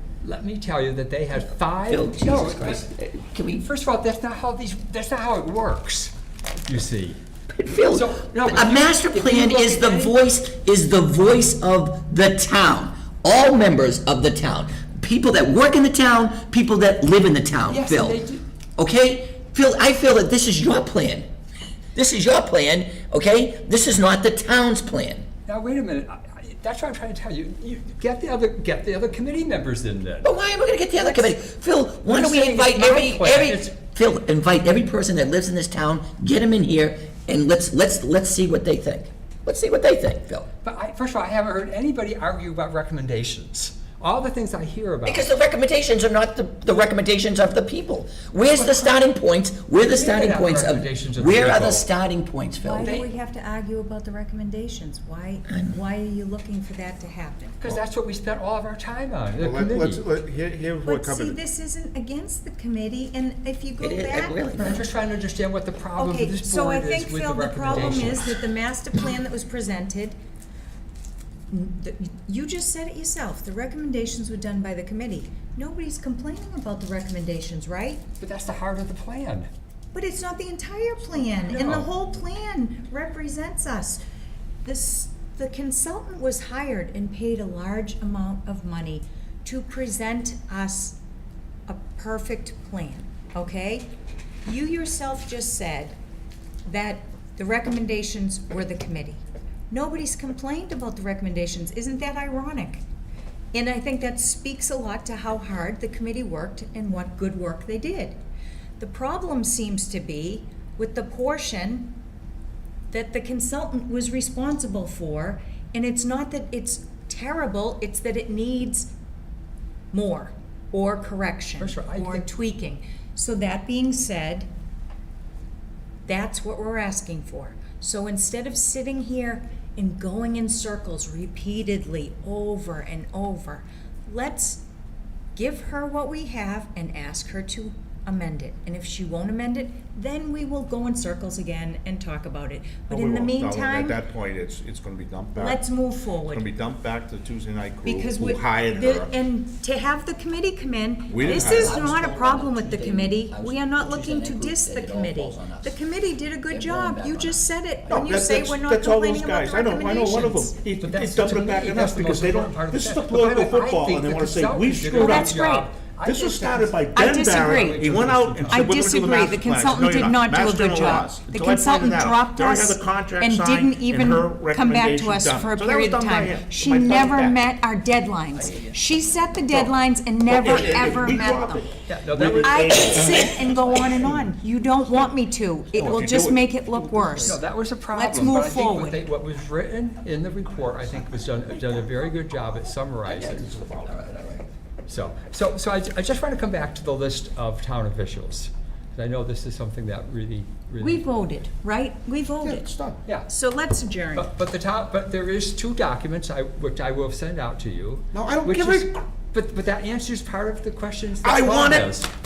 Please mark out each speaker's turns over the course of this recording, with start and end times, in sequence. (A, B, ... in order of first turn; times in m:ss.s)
0:00.2-0:02.9 A
0:01.9-0:03.6 B
0:03.6-0:06.1 A
0:06.6-0:07.2 A
0:07.5-0:18.2 B
0:07.8-0:10.2 A
0:17.7-0:18.4 A
0:18.8-0:21.3 B
0:21.9-0:25.3 B
0:25.5-0:30.3 A
0:30.2-0:40.5 B
0:31.0-0:31.4 A
0:32.1-0:33.7 A
0:40.6-0:45.3 A
0:45.0-0:53.0 B
0:48.5-0:49.0 A
0:49.8-0:51.8 A
0:52.6-0:57.6 C
0:52.8-0:53.1 A
0:55.5-0:55.8 B
0:57.6-1:00.0 A
0:59.4-1:01.4 D
1:00.8-1:04.8 C
1:03.8-1:04.8 B
1:04.6-1:08.3 A
1:06.0-1:10.2 C
1:11.5-1:18.0 C
1:18.2-1:19.5 A
1:19.9-1:24.0 C
1:21.3-1:21.9 A
1:24.6-1:31.0 C
1:31.7-1:33.9 C
1:34.4-1:36.0 C
1:36.7-1:42.8 C
1:43.5-1:48.2 C
1:48.8-1:52.0 C
1:52.9-1:58.9 C
1:59.9-2:04.5 C
2:01.6-2:02.3 A
2:06.1-2:14.6 C
2:15.4-2:24.0 C
2:22.9-2:25.6 D
2:25.4-2:26.5 C
2:26.3-2:29.1 D
2:27.8-2:40.5 C
2:31.1-2:31.8 D
2:31.2-2:35.8 B
2:36.5-2:38.1 B
2:37.9-2:45.4 D
2:40.5-2:48.8 A
2:44.9-2:45.8 C
2:46.0-2:57.5 D
2:46.9-2:47.8 C
2:48.5-3:07.4 C
2:58.3-2:59.4 B
2:59.5-2:59.8 D
3:00.3-3:04.2 D
3:01.9-3:02.6 A
3:05.7-3:07.3 D
3:07.2-3:13.6 A
3:07.9-3:09.0 C
3:13.1-3:14.4 B
3:13.1-3:14.1 D
3:14.9-3:21.0 A
3:20.8-3:22.6 C
3:22.4-3:23.0 D
3:23.3-3:24.3 C
3:24.1-3:32.1 A
3:28.1-3:29.0 D
3:31.2-3:31.9 D